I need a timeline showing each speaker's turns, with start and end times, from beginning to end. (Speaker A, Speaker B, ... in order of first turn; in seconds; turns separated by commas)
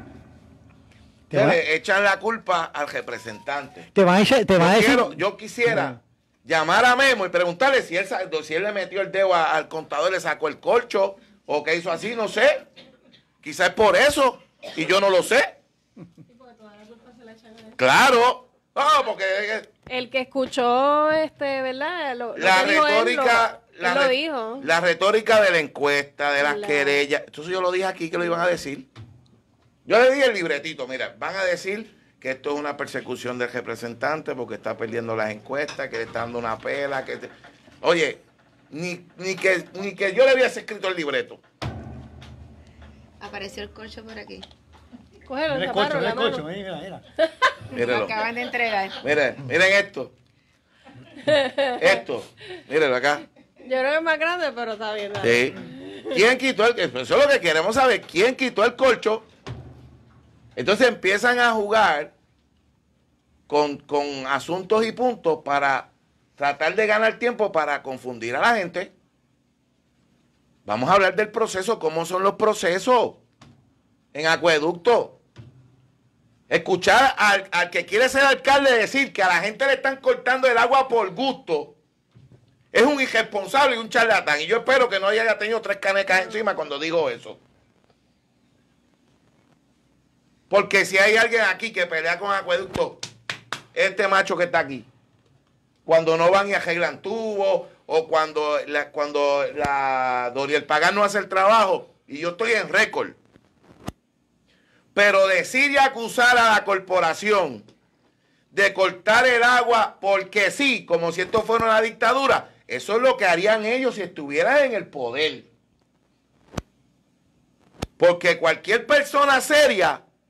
Speaker A: 1.3-1.6, Speaker B: 1.3-3.9, Speaker A: 3.9-6.0, Speaker B: 4.6-12.7, Speaker B: 13.4-15.5, Speaker C: 16.4-17.7, Speaker B: 17.8-19.7, Speaker C: 19.9-24.6, Speaker B: 22.4-28.9, Speaker C: 26.4-27.0, Speaker B: 29.9-37.3, Speaker B: 37.8-41.4, Speaker D: 43.2-44.5, Speaker C: 45.3-46.4, Speaker A: 45.5-47.0, Speaker B: 47.7-48.1, Speaker D: 47.7-49.0, Speaker B: 49.0-50.1, Speaker B: 51.8-53.2, Speaker C: 53.6-55.5, Speaker B: 55.2-55.6, Speaker B: 56.1-59.2, Speaker B: 60.5-62.1, Speaker B: 63.5-68.9, Speaker B: 70.7-73.2, Speaker B: 74.1-75.2, Speaker B: 76.5-81.8, Speaker B: 82.7-87.4, Speaker B: 90.5-93.0, Speaker B: 93.7-94.9, Speaker B: 95.8-103.2, Speaker B: 104.9-107.6, Speaker B: 108.5-115.5, Speaker B: 118.0-120.0